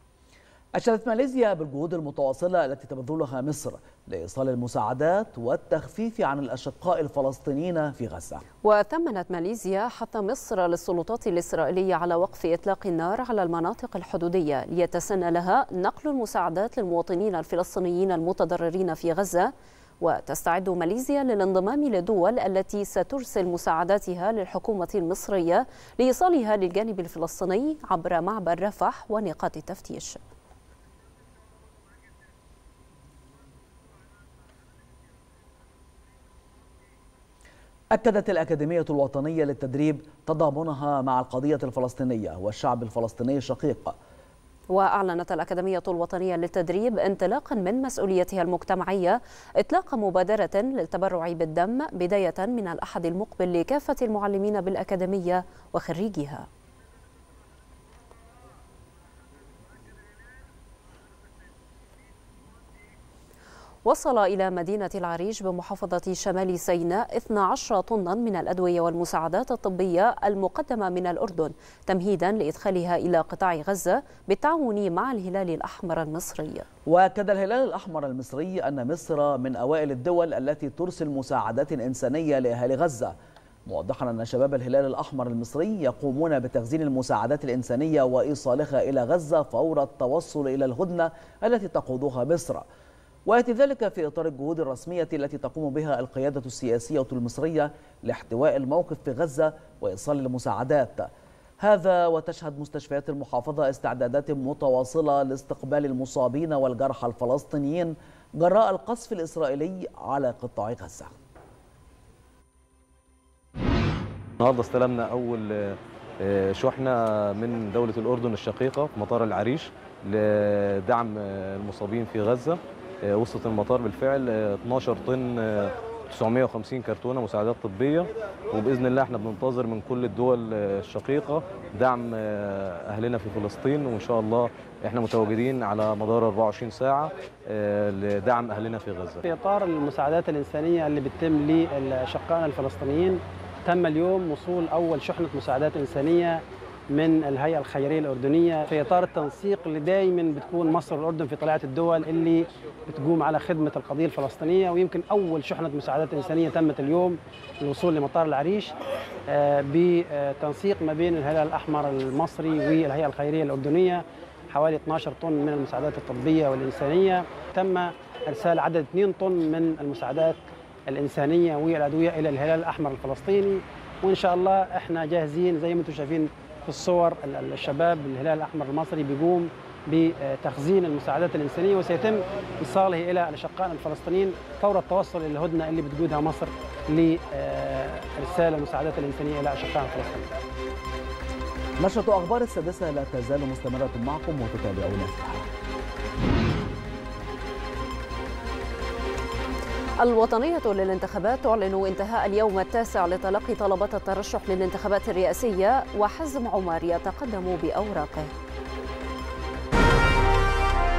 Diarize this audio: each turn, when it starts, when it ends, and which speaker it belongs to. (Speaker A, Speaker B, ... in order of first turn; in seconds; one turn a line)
Speaker A: 0.8-8.4
Speaker B: 8.6-30.2
Speaker A: 37.9-44.0
Speaker B: 44.7-56.5
Speaker B: 63.9-76.7
Speaker A: 76.9-83.2
Speaker A: 83.7-92.7
Speaker A: 93.3-101.1
Speaker A: 101.6-111.1
Speaker C: 114.4-139.2
Speaker D: 139.3-146.4
Speaker D: 147.0-158.7
Speaker D: 159.3-164.0
Speaker D: 164.5-170.4
Speaker D: 170.9-190.2
Speaker A: 191.8-195.4
Speaker B: 200.0-208.3